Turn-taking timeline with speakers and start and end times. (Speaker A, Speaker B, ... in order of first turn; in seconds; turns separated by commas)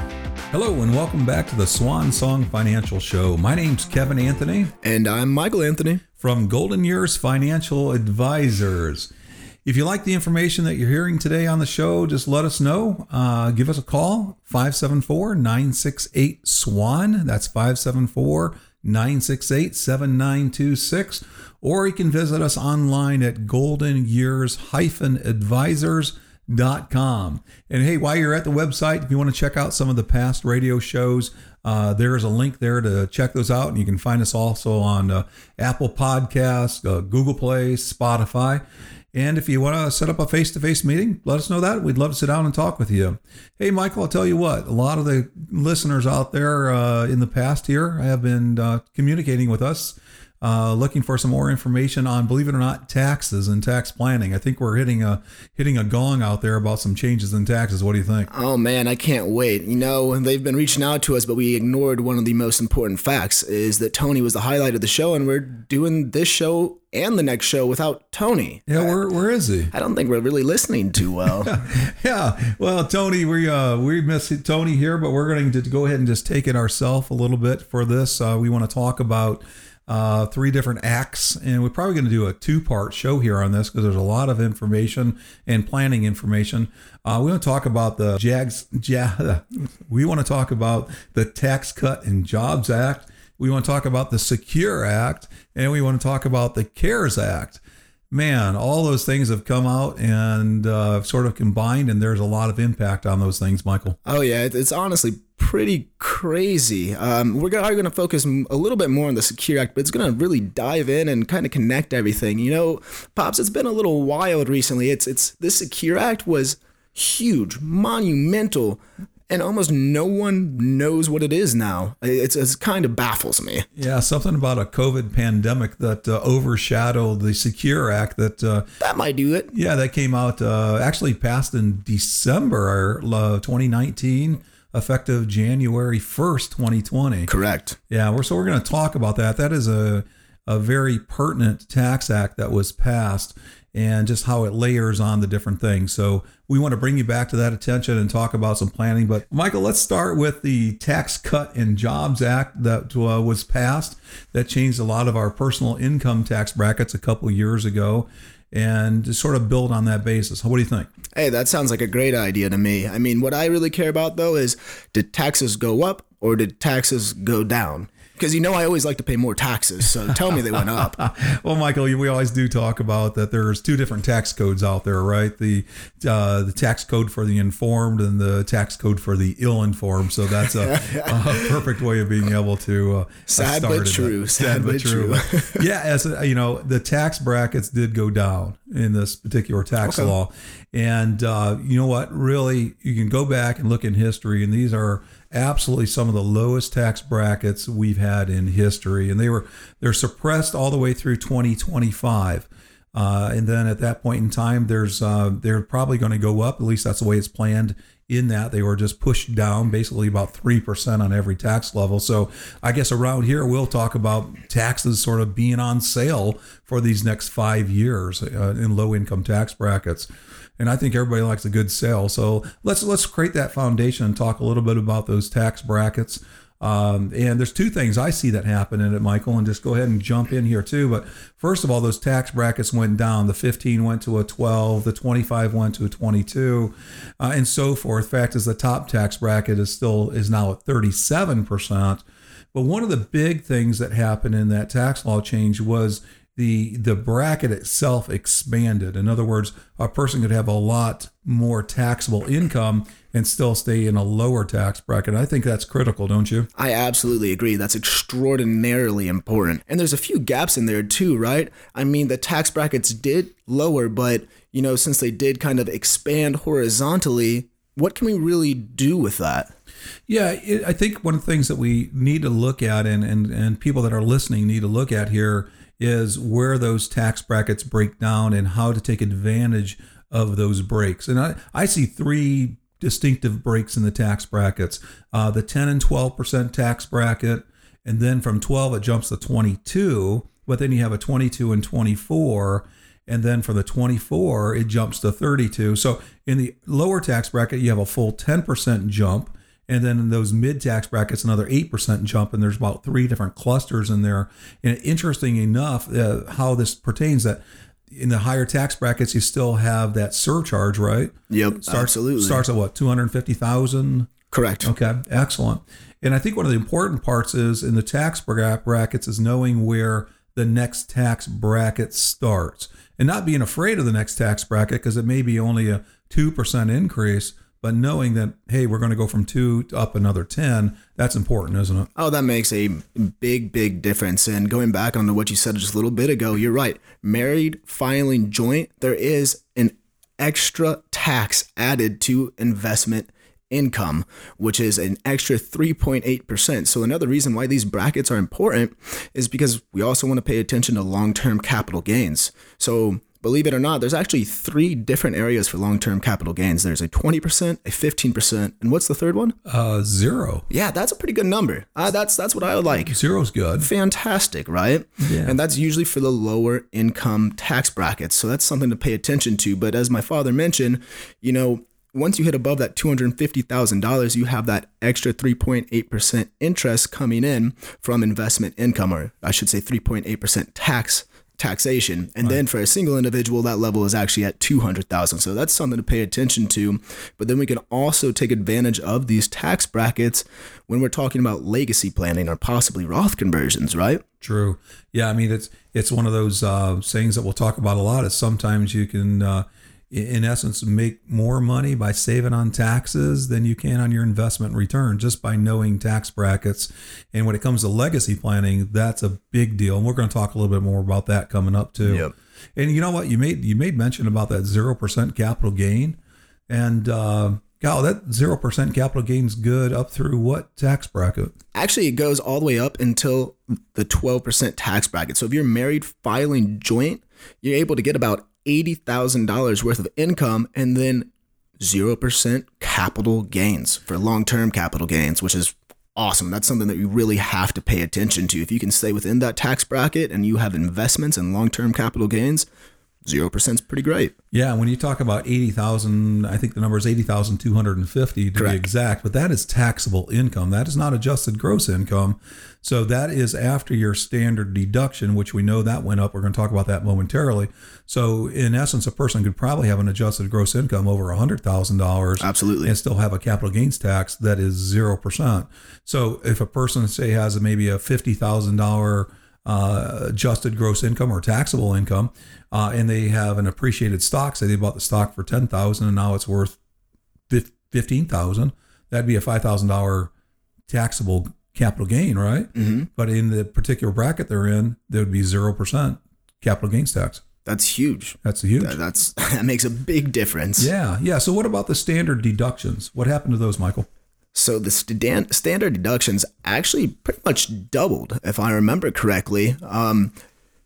Speaker A: 0.5-4.7, Speaker B: 4.8-6.0, Speaker A: 6.2-9.1, Speaker A: 9.6-38.6, Speaker A: 39.1-58.3, Speaker B: 58.3-69.0, Speaker A: 68.7-69.7, Speaker B: 69.7-71.5, Speaker A: 71.4-97.6, Speaker A: 98.1-104.0, Speaker B: 104.0-123.7, Speaker A: 123.8-128.7, Speaker B: 128.8-129.5, Speaker A: 129.5-137.3, Speaker B: 137.3-137.8, Speaker A: 137.9-160.9, Speaker B: 161.1-171.0, Speaker A: 171.0-220.1, Speaker B: 180.6-181.6, Speaker B: 183.3-185.6, Speaker B: 189.8-190.1, Speaker A: 220.6-256.5, Speaker B: 256.6-269.5, Speaker A: 270.1-314.1, Speaker B: 311.3-312.4, Speaker B: 314.3-314.7, Speaker A: 314.6-331.9, Speaker B: 331.9-359.4, Speaker A: 359.4-360.4, Speaker B: 360.5-362.9, Speaker A: 362.9-363.7, Speaker B: 363.6-394.0, Speaker A: 365.0-365.4, Speaker A: 394.2-416.0, Speaker B: 411.8-412.1, Speaker A: 416.5-421.3, Speaker B: 421.5-442.5, Speaker B: 443.1-444.1, Speaker A: 444.3-476.6, Speaker B: 448.3-448.6, Speaker B: 462.2-462.7, Speaker A: 477.3-480.1, Speaker A: 480.7-487.2, Speaker B: 482.5-482.9, Speaker B: 487.4-490.7, Speaker A: 488.2-488.8, Speaker A: 490.6-493.9, Speaker B: 494.3-500.1